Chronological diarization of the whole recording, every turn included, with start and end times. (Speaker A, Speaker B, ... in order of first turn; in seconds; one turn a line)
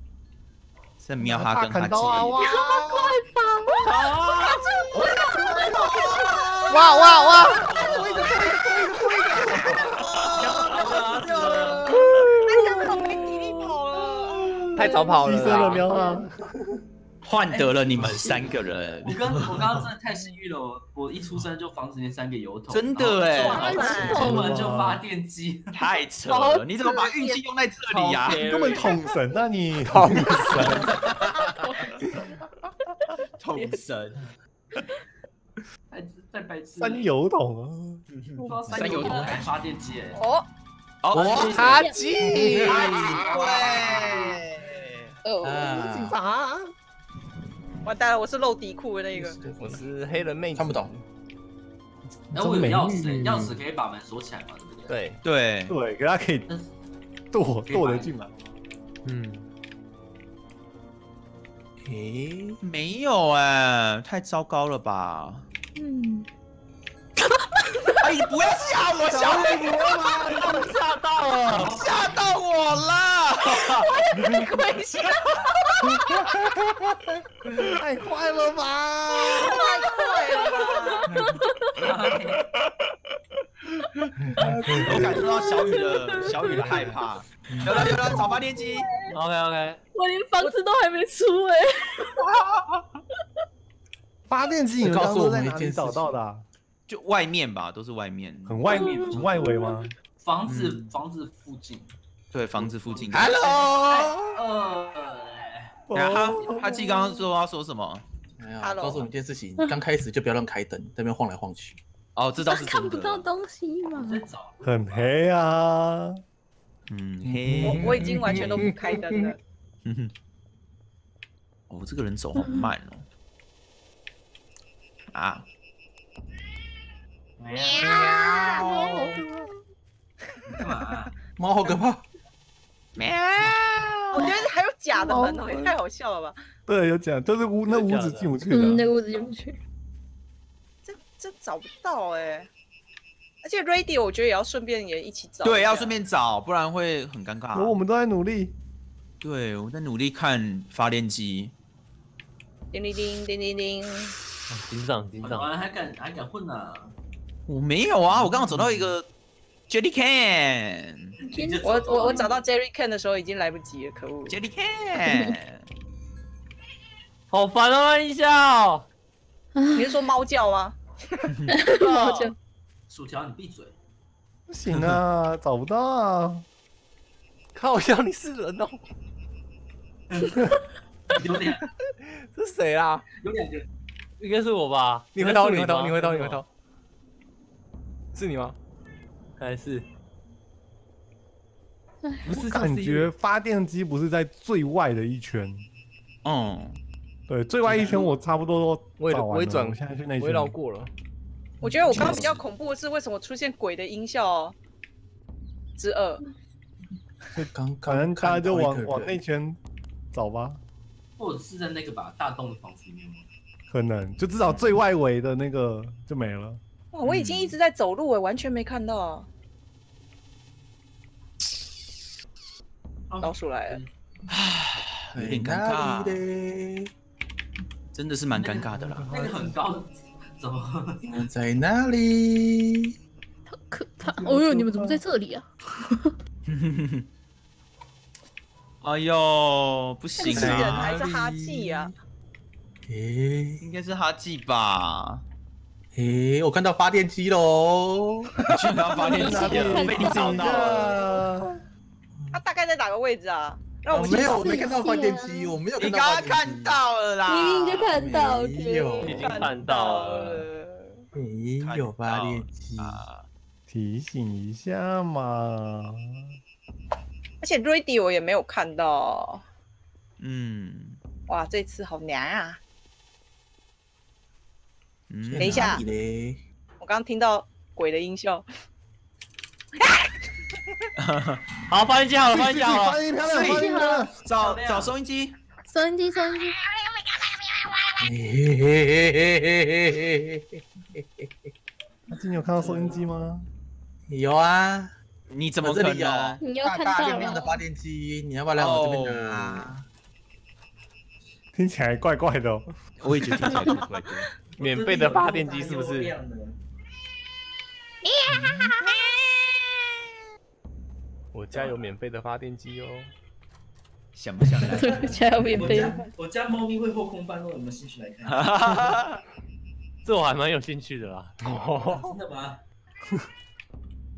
Speaker A: 1.0-2.4
Speaker B: 1.2-3.1
Speaker C: 2.4-7.7
Speaker D: 3.8-4.6
Speaker E: 4.6-5.7
Speaker B: 5.2-6.5
Speaker F: 6.7-7.7
Speaker B: 7.6-10.6
Speaker G: 7.7-8.6
Speaker A: 10.0-11.0
Speaker G: 10.4-11.8
Speaker H: 10.6-12.3
Speaker E: 12.4-15.3
Speaker B: 14.7-16.8
Speaker F: 14.7-15.9
Speaker C: 14.8-16.2
Speaker A: 17.2-19.8
Speaker C: 17.6-18.4
Speaker G: 19.1-25.7
Speaker A: 22.7-23.9
Speaker E: 23.3-24.3
Speaker C: 23.5-24.7
Speaker B: 23.7-25.0
Speaker A: 25.7-28.4
Speaker C: 26.3-27.4
Speaker D: 28.0-29.0
Speaker B: 28.3-31.0
Speaker F: 29.9-30.8
Speaker A: 30.4-32.0
Speaker C: 31.4-31.9
Speaker C: 32.8-33.8
Speaker A: 33.4-34.3
Speaker G: 35.9-37.1
Speaker B: 36.8-38.0
Speaker A: 38.1-39.5
Speaker G: 38.4-40.2
Speaker E: 40.1-40.5
Speaker A: 41.0-41.9
Speaker F: 41.1-43.2
Speaker C: 41.6-43.5
Speaker H: 42.2-43.6
Speaker A: 42.7-45.2
Speaker G: 42.8-44.5
Speaker C: 45.2-45.9
Speaker H: 45.4-46.1
Speaker B: 45.8-46.7
Speaker E: 47.8-49.4
Speaker H: 49.1-49.8
Speaker F: 49.5-51.0
Speaker H: 50.5-50.9
Speaker B: 52.3-53.5
Speaker G: 52.3-55.0
Speaker F: 54.9-55.2
Speaker A: 55.2-55.8
Speaker B: 55.7-56.5
Speaker B: 57.3-58.3
Speaker G: 57.7-58.3
Speaker F: 59.1-59.4
Speaker H: 61.8-62.6
Speaker A: 62.6-65.5
Speaker C: 65.8-66.3
Speaker C: 67.2-68.0
Speaker A: 68.0-70.4
Speaker B: 69.0-71.8
Speaker D: 70.3-71.8
Speaker G: 71.5-72.2
Speaker A: 71.6-74.5
Speaker E: 74.2-75.3
Speaker A: 75.0-76.2
Speaker B: 77.6-79.5
Speaker E: 79.3-81.1
Speaker C: 79.3-81.9
Speaker H: 81.1-81.4
Speaker G: 81.8-82.4
Speaker H: 84.4-85.1
Speaker B: 84.4-85.3
Speaker A: 84.8-88.9
Speaker C: 85.1-86.9
Speaker B: 86.5-87.0
Speaker H: 87.5-88.3
Speaker D: 89.1-89.8
Speaker C: 89.9-92.3
Speaker B: 94.3-96.5
Speaker H: 94.8-96.1
Speaker A: 96.9-98.8
Speaker B: 98.5-99.9
Speaker G: 98.7-101.9
Speaker C: 98.8-99.8
Speaker A: 100.5-100.9
Speaker A: 102.3-103.7
Speaker G: 102.6-105.8
Speaker H: 103.1-104.4
Speaker B: 105.9-107.1
Speaker A: 105.9-108.0
Speaker H: 108.4-111.8
Speaker E: 108.6-109.1
Speaker A: 112.2-113.3
Speaker C: 112.4-114.3
Speaker G: 114.0-115.1
Speaker B: 114.6-116.2
Speaker A: 116.9-118.7
Speaker H: 117.2-118.8
Speaker E: 117.6-119.4
Speaker A: 119.8-120.1
Speaker A: 121.7-123.1
Speaker C: 122.4-122.7
Speaker A: 125.1-125.5
Speaker G: 127.4-128.0
Speaker E: 127.8-128.8
Speaker H: 127.8-129.1
Speaker B: 128.6-129.6
Speaker G: 130.5-131.8
Speaker H: 131.4-132.0
Speaker A: 133.0-134.4
Speaker G: 133.3-133.6
Speaker E: 134.1-136.3
Speaker B: 135.0-135.8
Speaker B: 136.7-138.9
Speaker D: 137.7-138.4
Speaker C: 138.5-139.6
Speaker E: 140.8-142.5
Speaker E: 143.4-146.0
Speaker A: 145.4-147.8
Speaker B: 147.5-148.6
Speaker A: 149.2-151.5
Speaker E: 152.7-154.1
Speaker D: 154.5-155.5
Speaker G: 155.2-156.9
Speaker A: 157.5-159.1
Speaker A: 159.7-161.2
Speaker G: 161.2-162.4
Speaker C: 161.3-162.3
Speaker E: 161.6-164.4
Speaker A: 164.3-165.7
Speaker C: 165.1-165.3
Speaker D: 167.3-168.8
Speaker C: 169.6-170.0
Speaker E: 169.8-171.3
Speaker C: 171.5-172.3
Speaker D: 171.8-172.3
Speaker G: 172.9-173.8
Speaker B: 174.5-176.4
Speaker F: 177.6-178.8
Speaker G: 180.1-180.4
Speaker G: 181.1-181.7
Speaker F: 182.3-183.1
Speaker G: 183.2-183.7
Speaker D: 184.2-186.4
Speaker F: 185.2-186.5
Speaker F: 188.1-188.6
Speaker D: 189.4-189.8
Speaker B: 192.2-195.7
Speaker G: 192.3-193.1
Speaker A: 196.2-196.8
Speaker B: 197.3-200.6
Speaker F: 199.0-200.9
Speaker E: 201.6-204.6
Speaker H: 201.6-202.4
Speaker F: 201.9-202.2
Speaker E: 205.8-206.2
Speaker H: 207.3-209.2
Speaker B: 207.9-209.6
Speaker B: 210.1-210.6
Speaker G: 211.2-213.3
Speaker B: 213.7-216.6
Speaker E: 216.9-219.3
Speaker A: 217.1-217.6
Speaker G: 223.1-223.9
Speaker E: 223.2-223.8
Speaker A: 224.3-226.2
Speaker H: 225.1-226.9
Speaker A: 227.9-229.1
Speaker G: 228.3-231.2
Speaker B: 229.1-229.6
Speaker H: 231.0-232.9
Speaker C: 233.5-236.1
Speaker B: 234.1-235.0
Speaker A: 236.5-237.1
Speaker A: 238.8-240.9
Speaker E: 240.2-241.9
Speaker H: 240.2-241.9
Speaker H: 242.9-243.6
Speaker A: 243.6-245.2
Speaker H: 245.9-248.8
Speaker A: 248.5-251.1
Speaker C: 249.0-250.8
Speaker B: 249.1-251.6
Speaker E: 252.3-254.7
Speaker H: 253.9-256.8
Speaker C: 254.3-255.6
Speaker A: 255.8-258.2
Speaker C: 257.3-259.3
Speaker H: 258.0-259.3
Speaker D: 259.0-260.5
Speaker A: 259.1-259.6
Speaker E: 259.2-261.0
Speaker H: 261.1-263.1
Speaker A: 261.6-263.3
Speaker B: 263.7-266.2
Speaker E: 267.4-269.4
Speaker A: 270.2-271.0
Speaker E: 271.3-272.6
Speaker A: 275.1-275.9
Speaker H: 275.2-276.4
Speaker E: 275.4-275.8
Speaker E: 276.8-278.4
Speaker A: 281.0-281.5
Speaker D: 281.7-283.1
Speaker B: 282.3-284.1
Speaker A: 283.2-285.4
Speaker C: 283.2-284.1
Speaker G: 284.3-284.9
Speaker C: 285.7-286.6
Speaker H: 288.0-291.3
Speaker B: 292.1-293.5
Speaker H: 292.6-292.9
Speaker H: 294.1-294.9
Speaker A: 295.3-296.4
Speaker H: 295.6-299.9
Speaker C: 296.4-297.6
Speaker A: 298.6-299.7
Speaker B: 301.5-302.7
Speaker A: 303.0-303.9
Speaker B: 303.2-303.7
Speaker F: 303.4-306.1
Speaker D: 303.5-304.2
Speaker G: 304.6-306.6
Speaker C: 308.0-308.8
Speaker H: 308.3-308.7
Speaker F: 311.3-313.1
Speaker A: 314.1-315.9
Speaker C: 314.6-316.1
Speaker G: 315.5-318.6
Speaker A: 318.3-319.2
Speaker D: 320.0-321.3
Speaker F: 321.4-322.2
Speaker G: 321.9-322.6